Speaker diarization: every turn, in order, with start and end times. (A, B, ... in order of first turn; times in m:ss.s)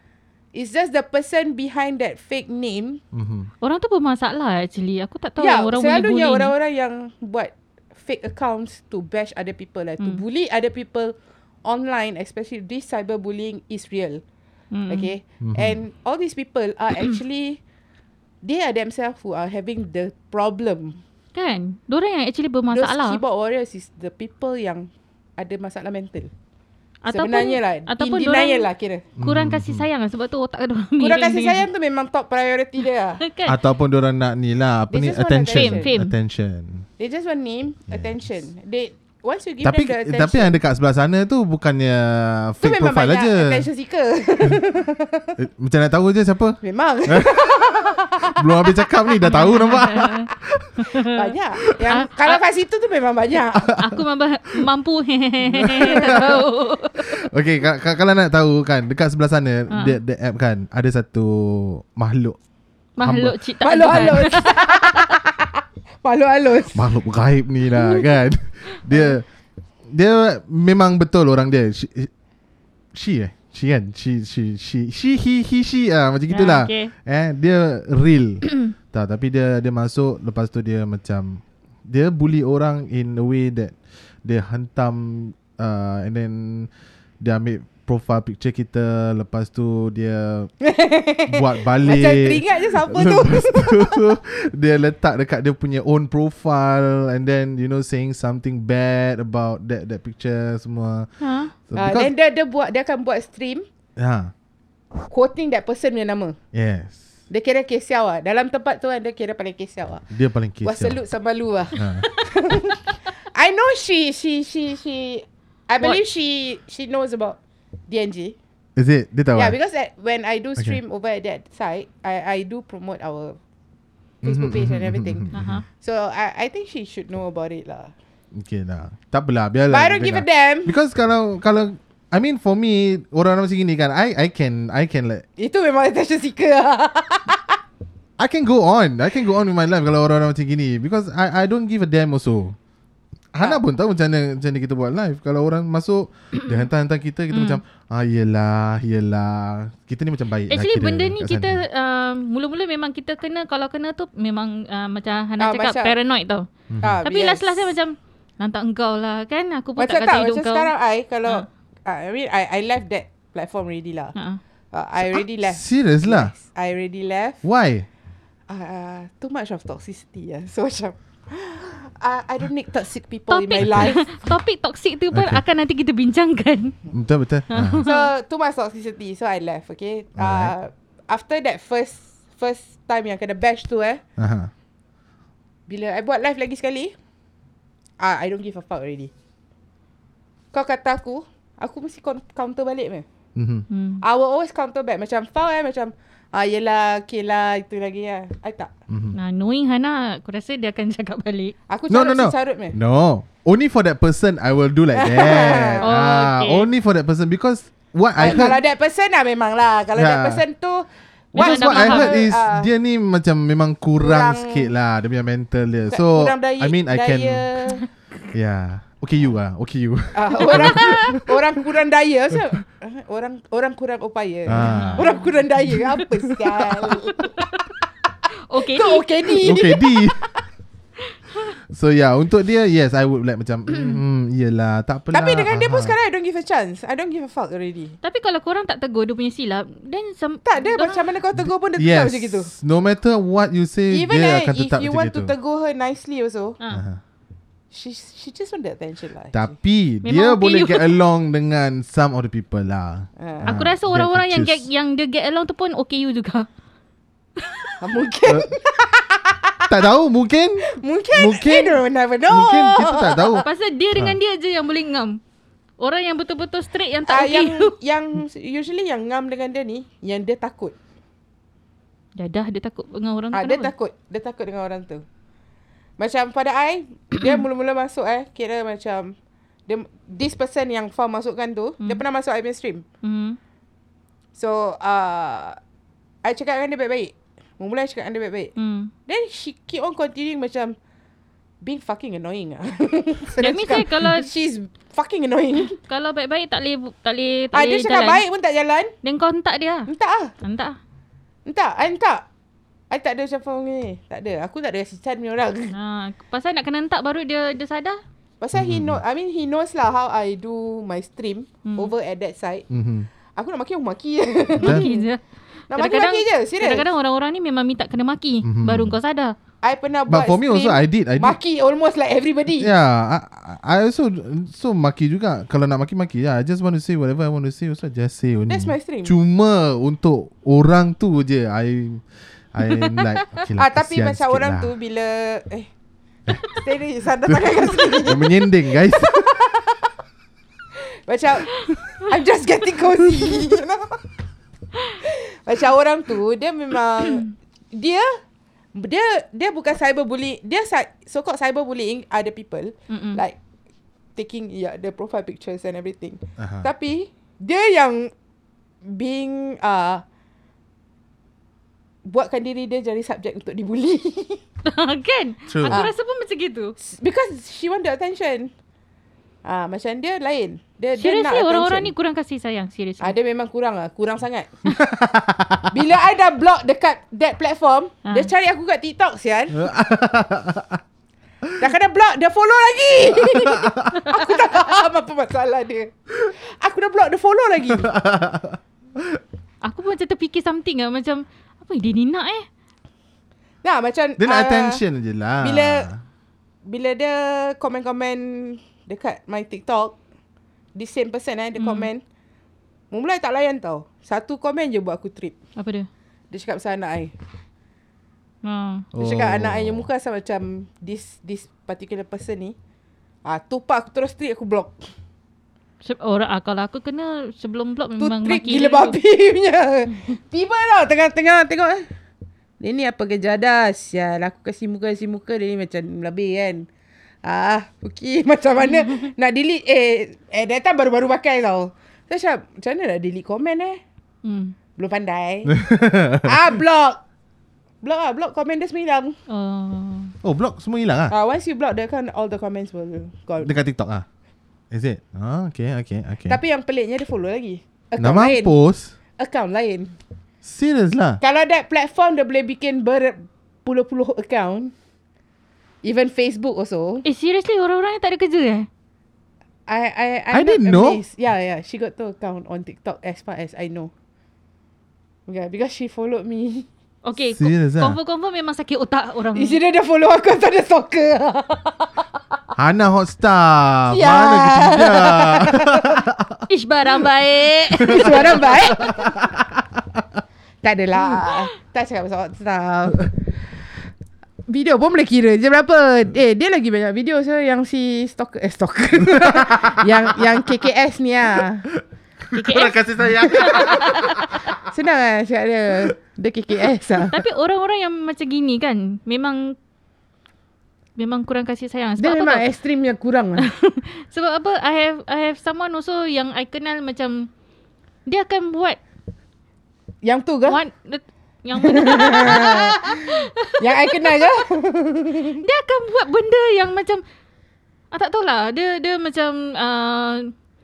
0:00.5-0:03.0 A
0:03.1-0:03.5 B
0:03.6-0:06.5 C
0:05.4-0:14.2 A
0:14.7-0:15.1 C
0:14.9-0:17.6 A
0:15.4-0:15.8 B
0:18.4-0:21.0 A
0:21.3-0:23.2 C
0:22.7-0:26.3 A
0:27.0-0:28.7 C
0:27.1-0:29.0 A
0:29.2-0:29.8 B
0:29.2-0:31.6 C
0:31.0-0:33.2 A
0:33.2-0:33.6 C
0:33.4-0:36.8 B
0:34.9-0:35.9 A
0:35.5-0:36.1 C
0:37.0-0:40.6 A
0:37.9-0:38.1 B
0:39.6-0:43.7 B
0:42.6-0:45.4 A
0:45.4-0:50.8 B
0:46.6-0:48.8 A
0:49.2-0:50.3 C
0:50.8-0:51.1 C
0:51.0-0:53.8 A
0:51.9-0:52.4 C
0:53.7-0:54.0 B
0:53.8-0:57.2 C
0:55.5-0:56.4 B
0:55.6-0:56.2 A
0:57.0-1:02.4 B
0:59.7-1:00.0 C
1:03.0-1:05.0 C
1:03.0-1:03.3 B
1:03.6-1:06.9 A
1:06.7-1:09.2 B
1:07.8-1:08.0 C
1:09.9-1:12.1 B
1:12.9-1:26.7 B
1:16.3-1:16.9 C
1:27.2-1:30.5 B
1:30.6-1:34.1 A
1:31.3-1:41.1 B
1:41.2-1:41.5 C
1:41.7-1:42.1 B
1:41.7-1:43.6 A
1:44.0-1:44.3 B
1:45.1-1:46.4 A
1:46.5-1:47.0 B
1:47.3-1:50.0 A
1:50.1-1:51.0 B
1:50.6-1:57.4 A
1:51.8-1:52.0 B
1:57.9-1:58.4 A
1:58.8-1:59.6 B
1:59.3-2:03.4 A
2:04.2-2:05.6 B
2:04.2-2:07.9 A
2:05.3-2:05.6 C
2:08.3-2:15.2 B
2:09.7-2:10.7 A
2:15.4-2:17.6 A
2:18.2-2:22.6 B
2:23.3-2:31.6 B
2:27.3-2:27.6 C
2:30.5-2:36.5 C
2:35.4-2:35.9 A
2:36.7-2:37.0 B
2:36.8-2:37.7 A
2:37.0-2:40.7 C
2:39.8-2:44.1 A
2:44.7-2:47.4 A
2:45.1-2:46.3 B
2:47.4-2:47.9 B
2:48.5-2:54.1 A
2:53.3-2:56.8 C
2:53.6-2:53.9 B
2:55.1-2:55.4 B
2:56.9-2:57.8 B
2:57.5-2:58.1 C
2:57.8-3:04.0 A
3:00.2-3:00.5 B
3:04.2-3:04.5 B
3:05.7-3:06.9 A
3:08.0-3:09.1 A
3:10.5-3:13.0 A
3:13.4-3:13.6 B
3:13.7-3:14.0 C
3:14.0-3:18.7 A
3:18.9-3:19.2 B
3:19.1-3:21.5 C
3:21.7-3:22.8 A
3:21.9-3:28.6 B
3:24.9-3:25.8 A
3:25.8-3:26.7 C
3:28.2-3:32.7 A
3:29.9-3:30.4 B
3:31.3-3:32.2 C
3:31.4-3:37.4 B
3:34.0-3:34.7 A
3:35.9-3:37.8 A
3:38.3-3:41.4 B
3:40.1-3:47.3 A
3:40.5-3:41.2 C
3:44.5-3:45.1 B
3:44.6-3:45.2 C
3:45.7-3:46.5 B
3:47.2-3:47.6 C
3:48.5-3:49.5 C
3:48.6-3:50.0 A
3:49.4-3:50.3 B
3:51.7-3:55.9 B
3:55.1-3:58.0 A
3:58.0-4:01.0 C
4:00.4-4:02.5 A
4:01.4-4:05.3 B
4:03.9-4:06.6 A
4:06.7-4:07.0 B
4:07.7-4:09.5 A
4:09.3-4:14.6 B
4:10.0-4:11.0 C
4:13.2-4:13.6 A
4:13.5-4:16.5 C
4:17.4-4:17.7 C
4:17.8-4:19.7 A
4:19.7-4:23.4 B
4:20.6-4:23.4 A
4:23.4-4:25.2 C
4:25.8-4:27.7 C
4:27.1-4:30.7 A
4:32.2-4:33.7 C
4:33.3-4:35.0 A
4:36.0-4:39.1 A
4:39.7-4:42.8 A
4:43.0-4:43.4 C
4:44.3-4:45.6 A
4:46.2-4:48.5 A
4:48.6-4:48.9 C
4:49.1-4:50.8 A
4:51.6-4:55.8 A
4:53.4-4:54.3 C
4:55.7-4:58.2 C
4:57.5-4:58.9 A
4:59.0-4:59.9 C
4:59.9-5:00.3 A
5:00.4-5:00.8 C
5:01.4-5:02.2 A
5:02.9-5:05.7 A
5:05.7-5:08.0 C
5:08.4-5:12.6 A
5:08.5-5:09.0 B
5:11.6-5:11.9 C
5:12.7-5:13.1 B
5:13.3-5:15.0 A
5:14.6-5:14.9 B
5:14.6-5:19.4 C
5:15.7-5:16.8 A
5:18.4-5:19.0 B
5:19.6-5:22.7 A
5:20.1-5:21.4 B
5:22.6-5:34.7 B
5:28.5-5:29.1 A
5:32.8-5:33.0 C
5:33.6-5:35.7 A
5:36.4-5:39.8 A
5:37.3-5:39.4 B
5:41.0-5:44.0 A
5:45.0-5:48.2 A
5:48.7-5:53.4 A
5:52.9-5:53.2 C
5:54.2-5:58.1 A
5:56.4-5:56.7 B
5:58.8-6:00.0 A
6:02.0-6:04.4 A
6:04.6-6:06.8 C
6:05.5-6:05.8 B
6:06.8-6:08.5 A
6:09.4-6:11.9 A
6:11.0-6:13.1 C
6:13.0-6:14.6 A
6:14.8-6:15.7 B
6:15.7-6:19.7 A
6:19.6-6:20.8 B
6:21.6-6:27.9 A
6:23.2-6:24.0 B
6:27.7-6:29.2 B
6:29.6-6:32.4 C
6:33.6-6:34.8 A
6:34.2-6:36.0 B
6:35.4-6:35.9 A
6:36.6-6:40.0 A
6:40.7-6:42.0 A
6:41.6-6:41.9 C
6:42.9-6:45.3 A
6:45.6-6:45.9 C
6:46.3-6:47.1 A
6:48.4-6:48.9 C
6:48.9-6:49.9 B
6:49.0-6:52.6 A
6:53.2-6:54.8 A
6:55.8-6:59.0 C
6:58.0-7:01.9 A
7:02.6-7:06.7 A
7:07.2-7:13.8 A
7:14.2-7:14.6 C
7:14.8-7:15.6 A
7:15.5-7:16.4 B
7:16.1-7:17.0 A
7:17.8-7:19.2 A
7:19.3-7:20.1 C
7:20.2-7:21.1 B
7:21.1-7:23.5 A
7:23.4-7:24.0 B
7:24.7-7:26.4 B
7:26.3-7:28.5 A
7:28.0-7:28.9 B
7:29.2-7:30.0 A
7:30.4-7:31.2 B
7:31.2-7:34.7 A
7:35.8-7:37.0 A
7:37.0-7:38.7 C
7:39.7-7:43.9 A
7:40.3-7:41.0 B
7:45.3-7:46.7 A
7:47.0-7:49.6 C
7:47.3-7:48.0 B
7:49.4-7:51.9 A
7:52.6-7:56.4 B
7:53.9-7:56.0 A
7:56.5-7:58.5 C
7:57.8-8:00.0 B
7:57.9-7:59.2 A
8:00.6-8:03.2 A
8:04.5-8:11.6 A
8:09.2-8:09.9 B
8:11.8-8:14.6 B
8:12.3-8:14.3 C
8:14.7-8:17.2 A
8:17.1-8:19.6 C
8:21.0-8:22.4 C
8:22.0-8:23.5 A
8:23.4-8:27.3 C
8:28.0-8:28.8 C
8:30.0-8:30.6 A
8:30.5-8:34.4 C
8:31.6-8:35.4 A
8:35.4-8:37.0 C
8:37.9-8:40.3 C